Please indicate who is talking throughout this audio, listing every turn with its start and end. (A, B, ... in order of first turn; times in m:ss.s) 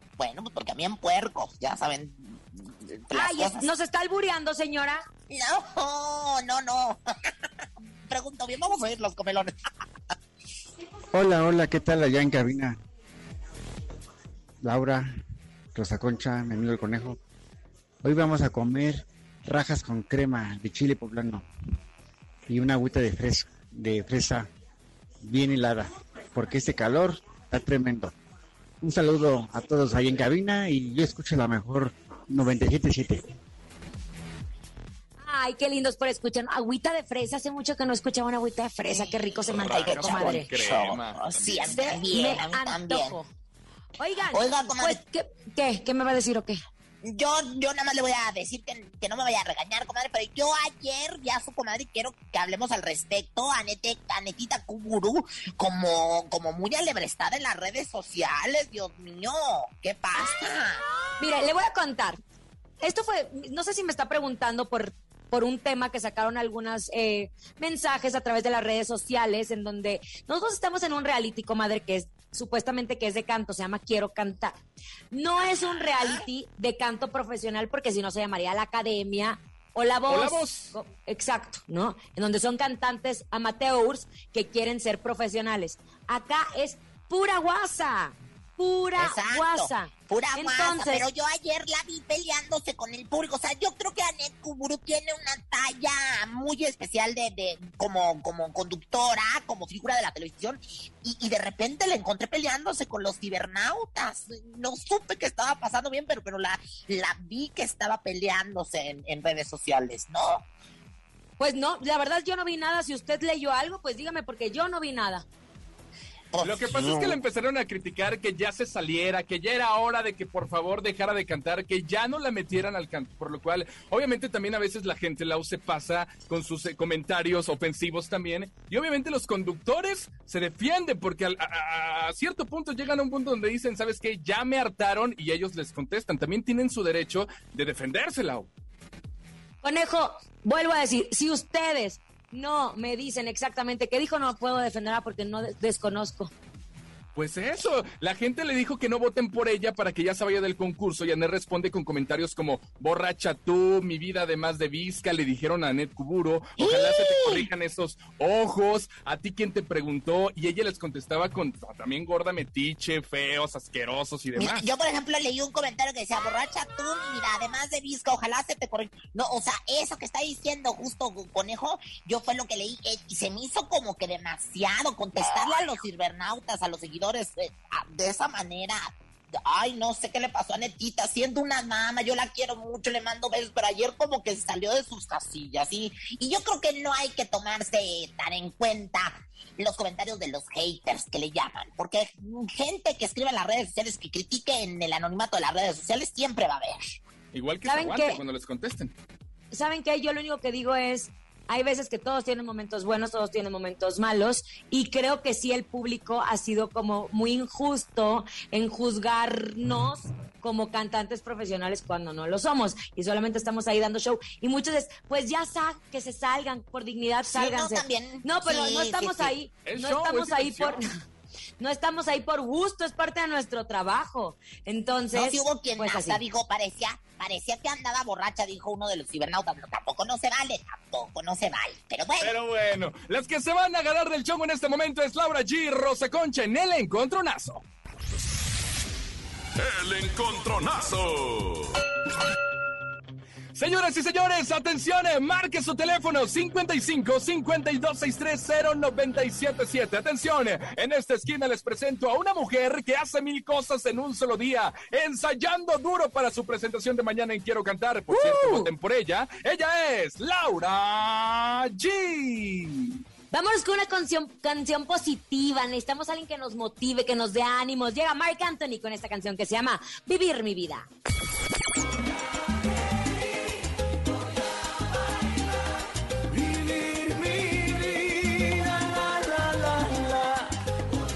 0:00.2-0:03.7 A
0:03.1-0:05.0 B
0:05.3-0:09.7 A
0:11.1-0:12.8 C
0:14.6-0:15.0 C
0:15.7-0:17.2 C
0:18.0-0:21.4 C
0:22.5-0:24.5 C
0:25.2-0:28.1 C
0:28.8-0:33.2 C
0:35.2-0:40.5 B
0:38.9-0:43.2 A
0:39.6-0:42.0 D
0:41.7-0:43.3 B
0:44.0-0:46.6 B
0:44.3-0:45.0 A
0:47.0-1:00.8 A
1:01.2-1:02.2 B
1:02.8-1:14.6 B
1:15.1-1:31.0 B
1:15.4-1:16.2 A
1:20.1-1:20.7 D
1:29.0-1:50.4 A
1:51.4-1:55.2 B
1:56.3-1:57.2 A
1:56.4-2:18.5 D
2:19.6-2:26.3 B
2:27.1-2:44.6 D
2:36.6-2:37.5 A
2:44.4-3:17.0 A
3:17.3-3:18.9 D
3:17.7-3:18.2 B
3:19.5-3:40.8 B
3:37.2-3:39.3 A
3:39.6-3:40.8 D
3:41.6-3:46.2 B
3:45.1-3:52.3 A
3:52.2-3:57.6 D
3:59.6-4:01.7 E
4:03.5-4:22.9 D
4:18.1-4:18.7 B
4:23.3-4:30.9 B